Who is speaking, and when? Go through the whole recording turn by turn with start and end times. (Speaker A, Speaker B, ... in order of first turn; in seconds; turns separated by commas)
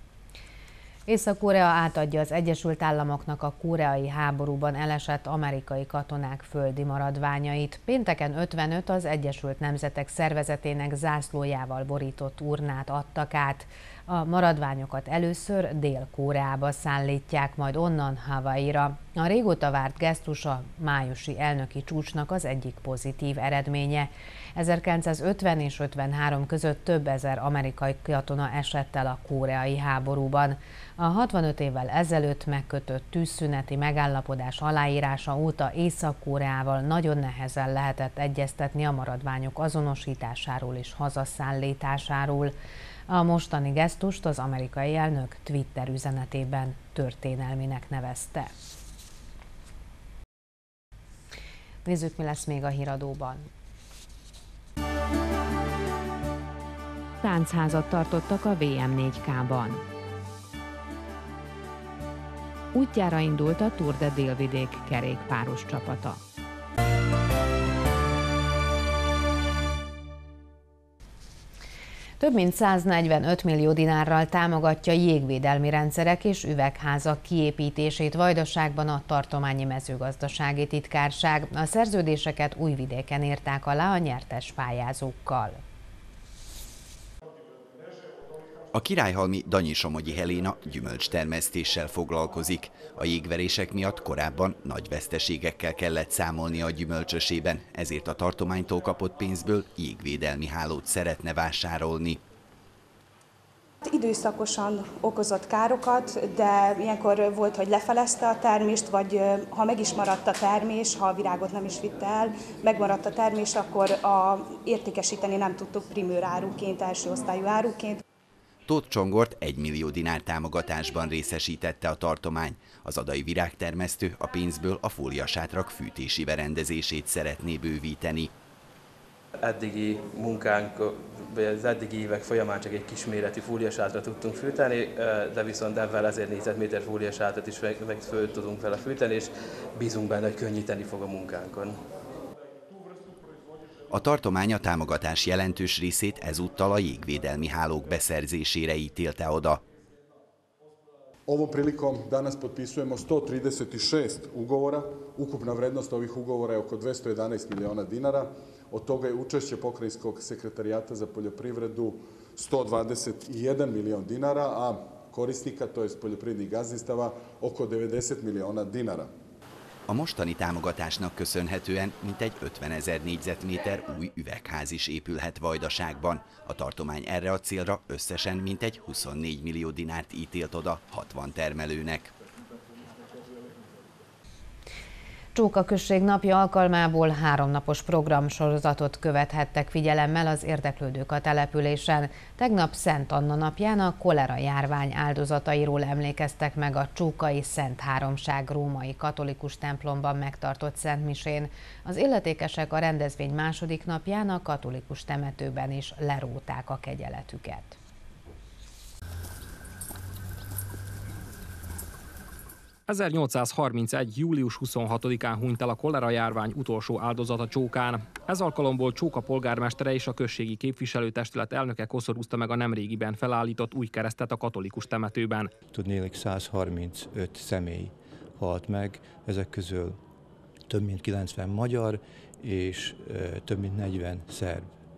Speaker A: 1.1-42.5, Speaker A: 43.1-48.5, Speaker A: 51.8-53.5, Speaker A: 57.2-59.8, Speaker A: 62.7-66.2, Speaker A: 72.2-85.6, Speaker B: 88.7-102.2, Speaker C: 103.8-118.0, Speaker B: 118.7-128.3, Speaker D: 129.5-139.3, Speaker D: 139.8-141.7, Speaker B: 143.9-149.6, Speaker E: 151.3-169.1, Speaker B: 169.9-182.1, Speaker A: 185.3-207.8, Speaker F: 212.9-225.5, Speaker G: 225.7-230.0, Speaker G: 230.7-234.7